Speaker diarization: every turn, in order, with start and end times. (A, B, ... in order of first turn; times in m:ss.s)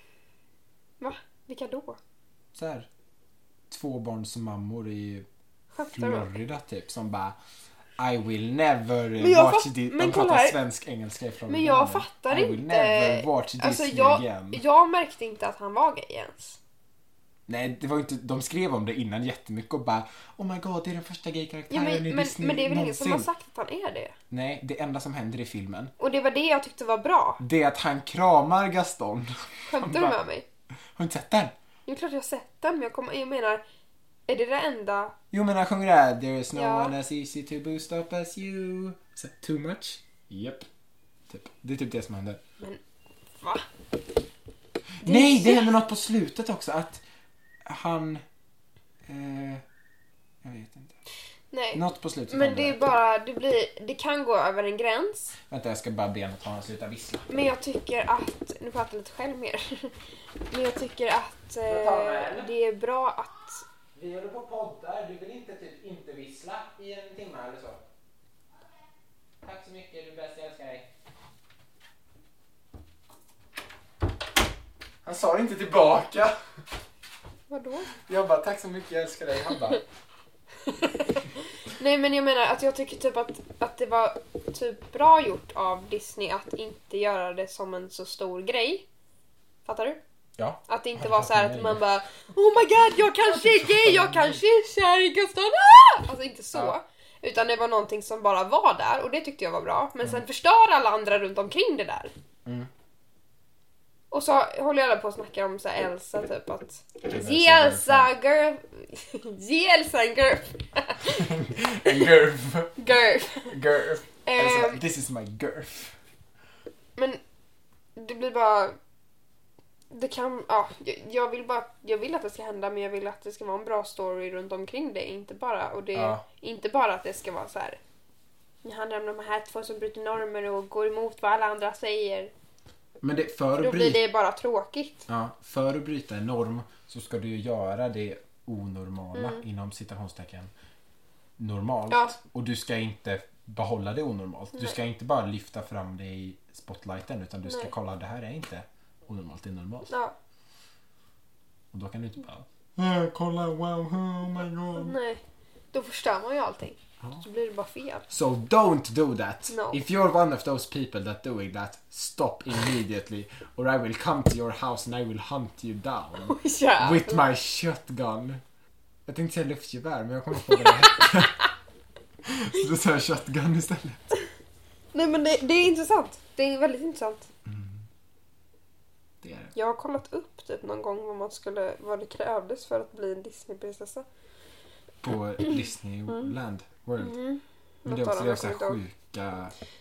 0:01.0-0:02.0 A
0:02.5-0:02.9 B
0:03.7-0:05.3 B
0:05.7-0:06.3 A
0:05.9-0:07.4 B
0:08.0-0:14.6 B
0:09.2-0:10.6 A
0:11.5-0:16.6 A
0:17.5-0:23.3 B
0:21.7-0:24.2 A
0:24.3-0:25.9 B
0:26.0-0:27.4 A
0:27.4-0:30.2 B
0:29.7-0:30.4 A
0:31.0-0:31.5 B
0:31.9-0:33.6 A
0:34.3-0:35.1 A
0:35.3-0:40.7 B
0:36.5-0:36.9 A
0:41.3-0:42.4 B
0:43.4-0:43.6 A
0:45.0-0:47.0 B
0:45.0-0:45.7 A
0:47.6-0:48.2 B
0:49.0-0:49.6 B
0:50.4-0:51.0 B
0:51.5-0:55.4 A
0:51.7-0:52.8 B
0:55.5-0:57.3 B
0:57.3-1:00.0 A
1:00.5-1:03.6 A
1:01.6-1:02.5 B
1:03.9-1:07.8 B
1:09.4-1:10.9 B
1:15.0-1:16.3 B
1:17.5-1:17.9 A
1:18.0-1:19.8 B
1:21.8-1:28.8 A
1:29.6-1:30.0 A
1:30.4-1:31.8 B
1:30.7-1:42.1 A
1:33.2-1:34.4 B
1:42.4-1:42.7 B
1:44.1-1:51.3 A
1:47.0-1:48.1 B
1:51.1-1:52.9 B
1:52.8-1:53.6 A
1:53.4-1:56.0 B
1:54.2-1:54.8 A
1:58.0-1:58.8 A
1:59.9-2:07.8 A
2:05.9-2:06.2 B
2:08.6-2:12.3 A
2:13.0-2:14.0 B
2:13.6-2:15.0 A
2:15.1-2:20.5 B
2:19.1-2:19.4 A
2:21.4-2:29.9 B
2:21.9-2:22.2 A
2:27.4-2:27.7 A
2:29.9-2:30.1 A
2:31.7-2:34.9 B
2:34.7-2:35.2 A
2:35.7-2:38.1 A
2:38.1-2:48.4 B
2:39.5-2:39.8 A
2:46.3-2:47.3 A
2:49.1-2:51.4 B
2:50.6-2:51.2 A
2:52.2-2:54.1 B
2:54.9-2:57.3 A
2:57.4-2:57.8 B
2:59.2-2:59.5 B
2:59.5-3:04.0 A
3:05.0-3:07.2 B
3:07.0-3:08.8 A
3:07.8-3:09.5 B